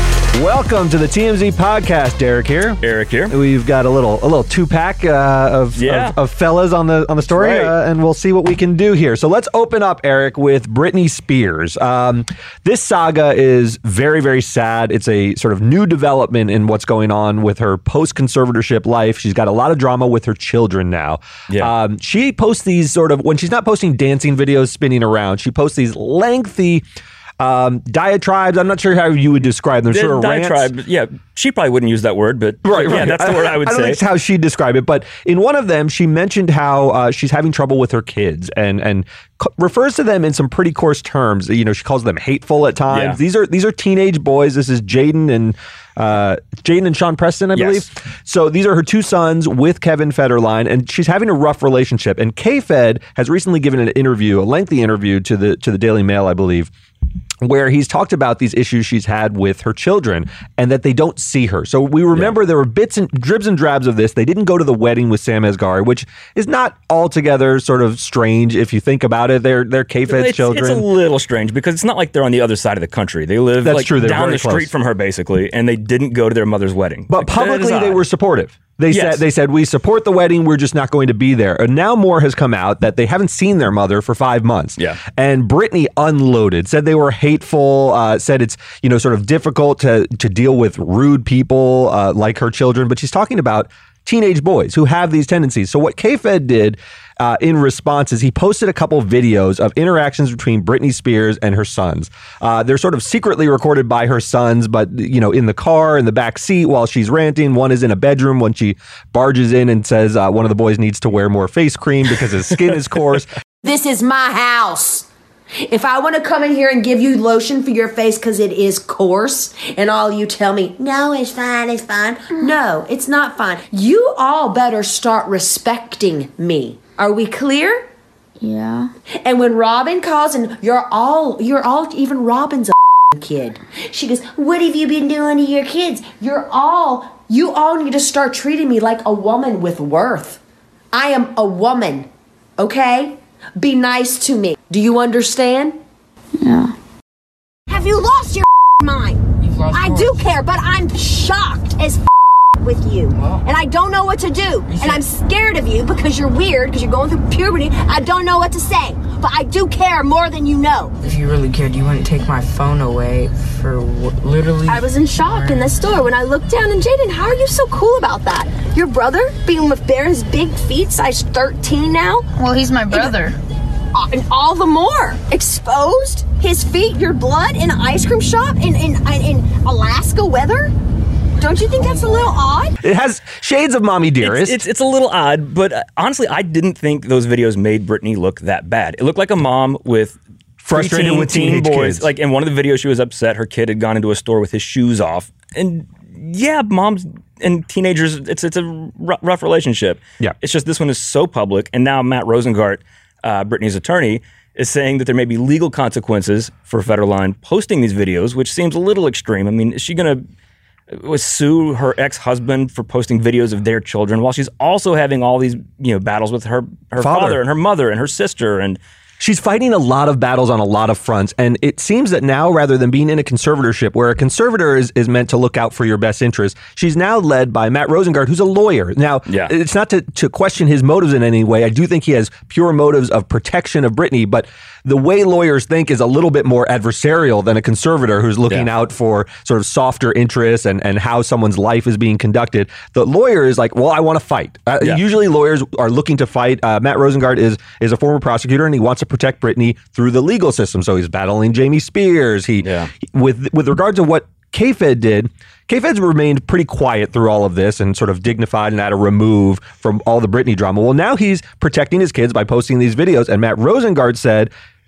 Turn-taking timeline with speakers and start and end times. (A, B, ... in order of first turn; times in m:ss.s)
0:00.3-0:26.8 A
0:02.8-0:03.3 B
0:05.8-0:06.2 B
0:07.3-0:07.7 B
0:27.4-0:30.7 A
0:29.9-0:34.0 B
0:32.6-0:56.7 A
0:42.9-0:43.2 B
0:47.5-0:47.9 B
0:57.4-1:10.8 A
1:10.1-1:18.0 B
1:13.6-1:14.7 A
1:17.1-1:53.3 A
1:18.9-1:19.2 B
1:53.6-1:55.1 C
1:55.6-2:07.8 C
2:08.4-2:08.9 D
2:09.2-2:20.4 C
2:20.9-2:25.8 C
2:26.4-2:26.7 D
2:27.7-2:32.0 E
2:29.4-2:30.2 F
2:32.6-2:40.9 E
2:33.1-2:33.4 F
2:34.7-2:35.0 F
2:41.0-2:45.8 F
2:44.6-2:52.3 E
2:52.4-2:53.3 D
2:52.9-2:53.2 E
2:53.9-3:00.7 E
3:01.4-3:02.8 E
3:02.8-3:04.6 A
3:04.2-3:10.2 B
3:10.6-3:12.1 A
3:10.7-3:30.2 B
3:30.9-3:38.8 B
3:37.0-3:37.4 A
3:39.2-4:24.5 A
3:49.3-3:49.5 B
4:12.6-4:12.9 B